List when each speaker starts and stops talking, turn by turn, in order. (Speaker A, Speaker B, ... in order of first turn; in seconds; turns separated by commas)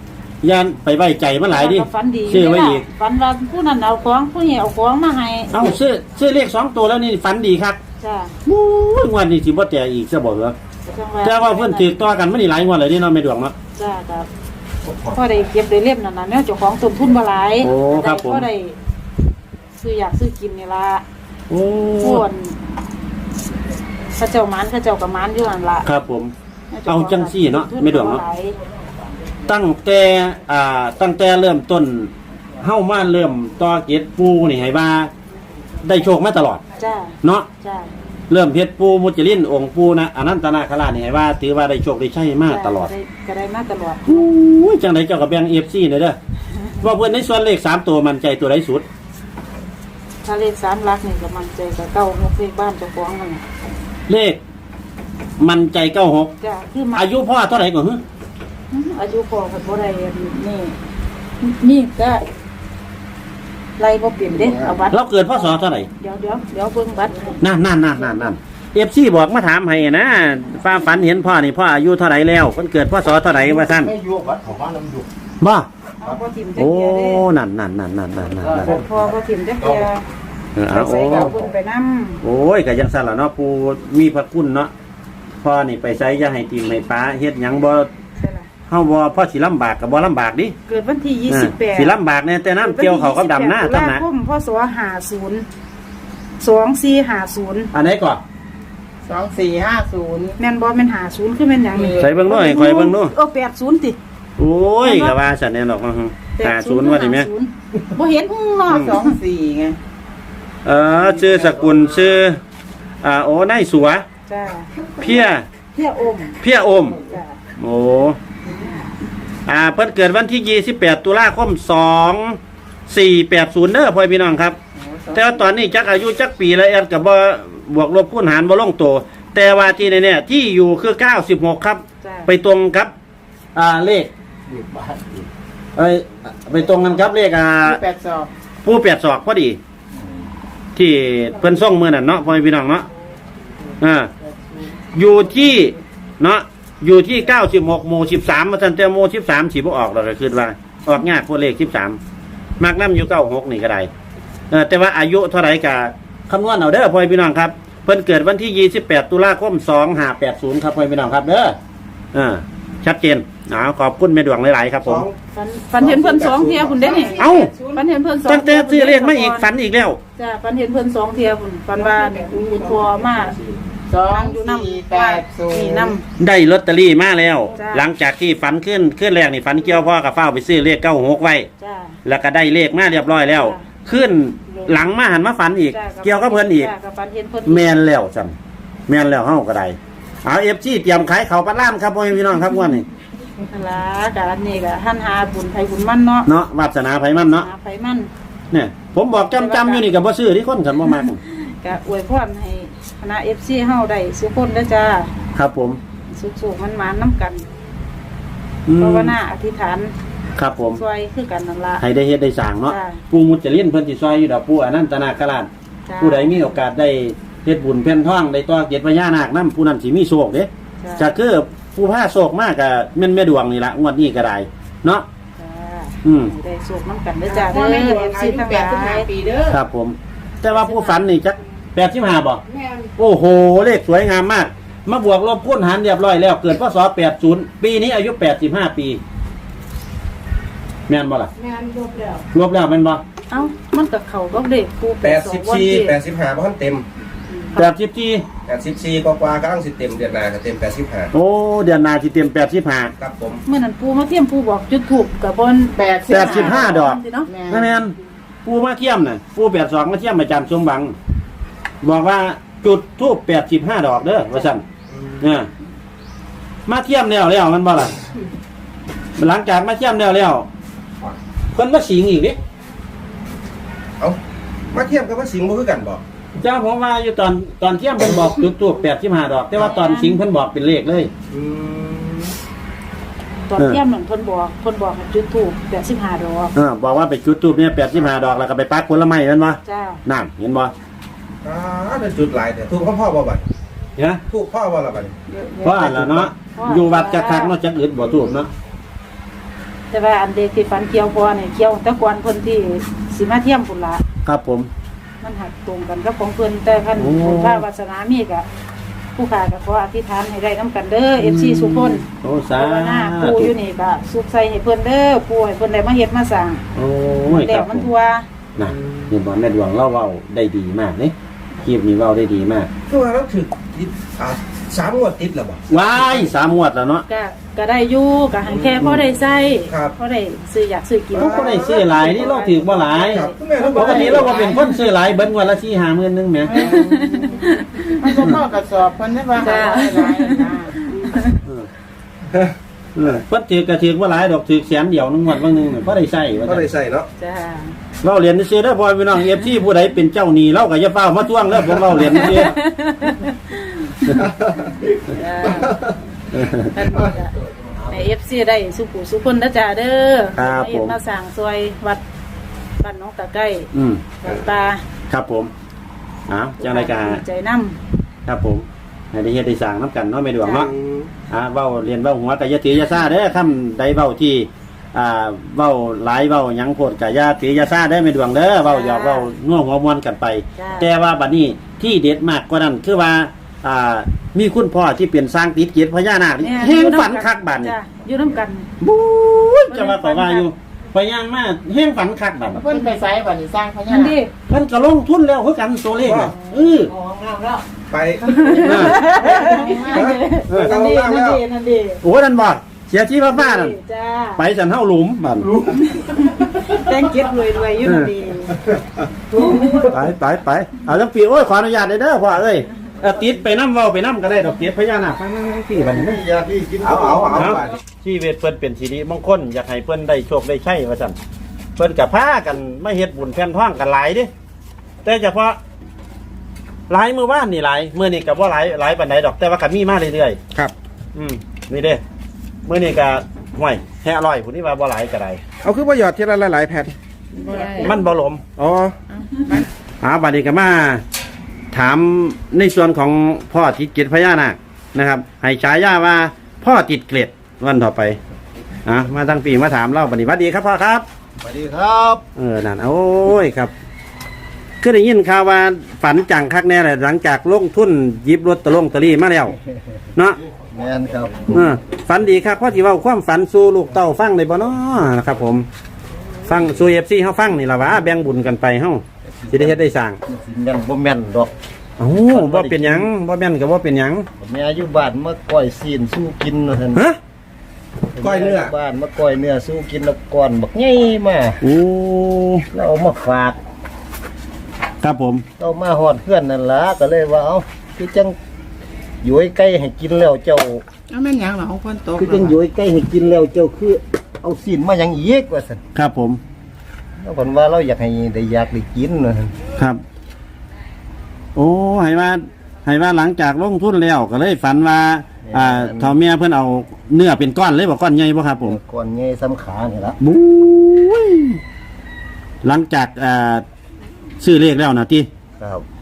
Speaker A: 0.4-2.9, Speaker B: 1.5-5.7, Speaker A: 5.5-7.8, Speaker B: 8.0-8.3, Speaker A: 8.4-10.6, Speaker B: 10.8-11.9, Speaker A: 11.2-13.5, Speaker B: 13.7-14.3, Speaker B: 15.1-18.8, Speaker A: 17.6-18.5, Speaker B: 19.8-21.0, Speaker A: 21.5-22.2, Speaker B: 22.0-22.6, Speaker B: 24.1-25.9, Speaker A: 25.8-26.3, Speaker B: 26.7-28.6, Speaker A: 26.9-28.2, Speaker A: 29.5-35.1, Speaker A: 35.8-36.6, Speaker B: 36.8-37.9, Speaker A: 37.2-37.5, Speaker A: 38.3-42.9, Speaker B: 42.5-44.2, Speaker A: 44.0-46.2, Speaker A: 46.8-48.8, Speaker B: 50.2-53.4, Speaker A: 54.1-54.4, Speaker A: 55.4-56.3, Speaker B: 56.4-57.0, Speaker A: 56.9-58.0, Speaker B: 58.7-60.7, Speaker B: 61.4-62.2, Speaker B: 63.8-67.4, Speaker A: 64.9-65.9, Speaker A: 67.4-73.9, Speaker A: 75.4-75.7, Speaker B: 76.0-77.2, Speaker A: 76.5-78.8, Speaker B: 78.6-80.0, Speaker A: 80.5-81.4, Speaker B: 80.7-82.2, Speaker A: 82.2-84.7, Speaker A: 85.4-87.9, Speaker B: 88.2-88.5, Speaker A: 88.7-90.5, Speaker B: 90.7-92.0, Speaker A: 91.3-94.0, Speaker B: 92.6-95.5, Speaker B: 96.4-97.7, Speaker A: 97.7-98.2, Speaker C: 99.0-100.4, Speaker B: 100.4-104.0, Speaker C: 101.7-102.2, Speaker A: 102.0-103.1, Speaker A: 104.4-107.3, Speaker B: 104.8-105.2, Speaker B: 106.4-109.2, Speaker C: 108.7-109.8, Speaker A: 108.7-108.9, Speaker A: 110.6-112.4, Speaker A: 113.0-114.0, Speaker B: 114.3-114.7, Speaker A: 115.0-115.5, Speaker B: 115.7-116.4, Speaker A: 116.4-117.0, Speaker B: 116.9-117.4, Speaker A: 117.6-118.2, Speaker A: 119.5-124.6, Speaker C: 124.7-125.6, Speaker A: 125.1-132.9, Speaker B: 132.0-132.3, Speaker A: 133.5-134.1, Speaker D: 134.5-135.2, Speaker A: 135.8-137.8, Speaker C: 137.6-138.3, Speaker A: 138.6-139.6, Speaker A: 140.7-142.8, Speaker A: 143.8-144.1, Speaker C: 144.1-145.7, Speaker A: 144.9-152.0, Speaker A: 152.6-153.9, Speaker A: 154.5-161.6, Speaker A: 162.1-165.1, Speaker E: 164.8-165.2, Speaker B: 165.3-169.4, Speaker E: 165.8-167.1, Speaker C: 166.8-167.8, Speaker A: 167.2-167.5, Speaker A: 168.2-170.0, Speaker B: 170.2-173.4, Speaker C: 171.8-173.3, Speaker C: 173.9-176.0, Speaker B: 174.1-176.0, Speaker A: 176.2-181.5, Speaker B: 177.5-177.8, Speaker B: 181.6-182.0, Speaker A: 182.0-186.7, Speaker B: 183.4-183.6, Speaker B: 184.5-184.8, Speaker B: 185.7-187.7, Speaker A: 187.4-188.3, Speaker A: 188.9-192.8, Speaker B: 193.5-196.3, Speaker A: 196.2-197.5, Speaker B: 197.3-198.1, Speaker A: 198.5-201.2, Speaker B: 199.3-199.8, Speaker B: 201.0-205.1, Speaker A: 205.3-205.8, Speaker B: 206.1-207.4, Speaker A: 208.7-209.1, Speaker B: 208.8-209.9, Speaker A: 210.3-210.8, Speaker B: 210.7-211.8, Speaker A: 211.8-225.1, Speaker B: 212.7-213.0, Speaker B: 215.9-216.3, Speaker B: 220.8-221.1, Speaker B: 225.4-229.1, Speaker A: 226.0-226.3, Speaker C: 227.3-229.6, Speaker A: 229.5-232.4, Speaker B: 230.5-231.0, Speaker C: 232.4-232.9, Speaker A: 233.0-239.0, Speaker A: 240.9-241.3, Speaker C: 241.3-242.2, Speaker A: 242.3-243.0, Speaker B: 243.3-245.9, Speaker E: 245.0-246.8, Speaker B: 247.3-247.7, Speaker A: 247.5-248.2, Speaker E: 248.5-251.1, Speaker A: 251.1-252.9, Speaker E: 253.0-253.4, Speaker B: 253.5-257.3, Speaker C: 255.7-257.8, Speaker A: 256.1-257.9, Speaker A: 258.4-260.9, Speaker A: 261.8-264.6, Speaker E: 264.9-265.2, Speaker A: 265.2-265.5, Speaker A: 266.7-267.9, Speaker A: 269.2-270.5, Speaker A: 271.5-272.4, Speaker E: 274.7-276.0, Speaker A: 276.4-281.1, Speaker B: 279.5-280.2, Speaker E: 281.3-282.3, Speaker B: 283.5-286.5, Speaker A: 286.5-290.7, Speaker B: 289.6-290.0, Speaker E: 291.4-293.4, Speaker E: 294.3-295.1, Speaker C: 295.3-296.2, Speaker A: 295.6-298.5, Speaker E: 295.9-296.3, Speaker B: 296.4-297.5, Speaker B: 299.9-304.0, Speaker A: 304.2-304.7, Speaker B: 305.2-308.4, Speaker A: 307.0-307.6, Speaker B: 309.1-312.0, Speaker A: 311.2-313.5, Speaker B: 312.6-316.6, Speaker A: 316.7-317.9, Speaker B: 317.3-318.2, Speaker A: 318.6-322.7, Speaker E: 318.6-319.1, Speaker E: 322.9-326.3, Speaker A: 325.7-327.0, Speaker B: 327.1-333.4, Speaker E: 328.5-329.0, Speaker A: 328.8-329.1, Speaker E: 331.1-332.3, Speaker A: 331.2-336.7, Speaker E: 332.9-334.5, Speaker C: 333.6-334.6, Speaker C: 336.5-340.8, Speaker B: 336.5-338.2, Speaker B: 339.4-341.4, Speaker A: 342.9-346.7, Speaker E: 346.4-347.1, Speaker B: 347.2-347.8, Speaker A: 348.0-352.6, Speaker B: 352.2-354.1, Speaker E: 354.1-355.9, Speaker B: 355.1-355.8, Speaker A: 356.3-356.7, Speaker B: 356.5-362.0, Speaker A: 360.4-360.9, Speaker B: 362.8-364.8, Speaker A: 363.7-364.0, Speaker A: 365.1-365.5, Speaker A: 366.3-367.2, Speaker B: 366.6-367.8, Speaker A: 368.2-370.7, Speaker E: 370.5-371.1, Speaker A: 371.3-387.7, Speaker B: 378.6-379.3, Speaker B: 380.6-380.9, Speaker B: 386.4-388.7, Speaker A: 388.8-392.6, Speaker B: 389.7-390.5, Speaker C: 392.5-394.2, Speaker B: 393.9-394.3, Speaker A: 394.5-396.9, Speaker E: 396.0-396.3, Speaker C: 396.6-397.6, Speaker E: 397.9-399.0, Speaker B: 398.4-402.0, Speaker A: 398.6-399.1, Speaker C: 399.1-400.2, Speaker E: 399.9-401.4, Speaker A: 402.0-403.7, Speaker B: 403.3-404.4, Speaker A: 404.4-405.5, Speaker E: 405.5-405.9, Speaker B: 405.9-408.6, Speaker A: 407.8-408.1, Speaker A: 409.8-416.2, Speaker D: 415.7-417.6, Speaker E: 416.8-417.8, Speaker A: 417.4-421.1, Speaker A: 421.8-424.3, Speaker A: 425.0-425.6, Speaker A: 426.9-430.4, Speaker A: 431.1-432.0, Speaker A: 432.6-435.4, Speaker E: 435.6-436.9, Speaker C: 437.3-437.9, Speaker A: 437.6-438.4, Speaker E: 438.6-438.9, Speaker C: 439.1-439.7, Speaker A: 440.0-441.0, Speaker A: 441.7-448.2, Speaker A: 448.9-451.1, Speaker D: 451.4-452.2, Speaker A: 452.4-453.7, Speaker A: 454.8-459.5, Speaker D: 460.5-461.7, Speaker A: 461.5-465.7, Speaker A: 466.4-470.2, Speaker D: 469.4-471.5, Speaker A: 472.0-474.3, Speaker D: 472.3-473.1, Speaker D: 474.4-477.1, Speaker D: 478.1-481.6, Speaker E: 478.2-478.7, Speaker A: 481.6-482.6, Speaker D: 482.7-483.6, Speaker A: 485.0-485.4, Speaker D: 485.6-488.4, Speaker D: 489.2-490.8, Speaker C: 491.1-492.5, Speaker D: 492.2-495.8, Speaker A: 495.9-496.4, Speaker D: 497.2-499.5, Speaker A: 501.6-508.8, Speaker D: 505.4-506.2, Speaker D: 508.6-510.2, Speaker A: 510.2-511.6, Speaker A: 512.6-513.6, Speaker A: 514.4-515.3, Speaker D: 515.6-515.8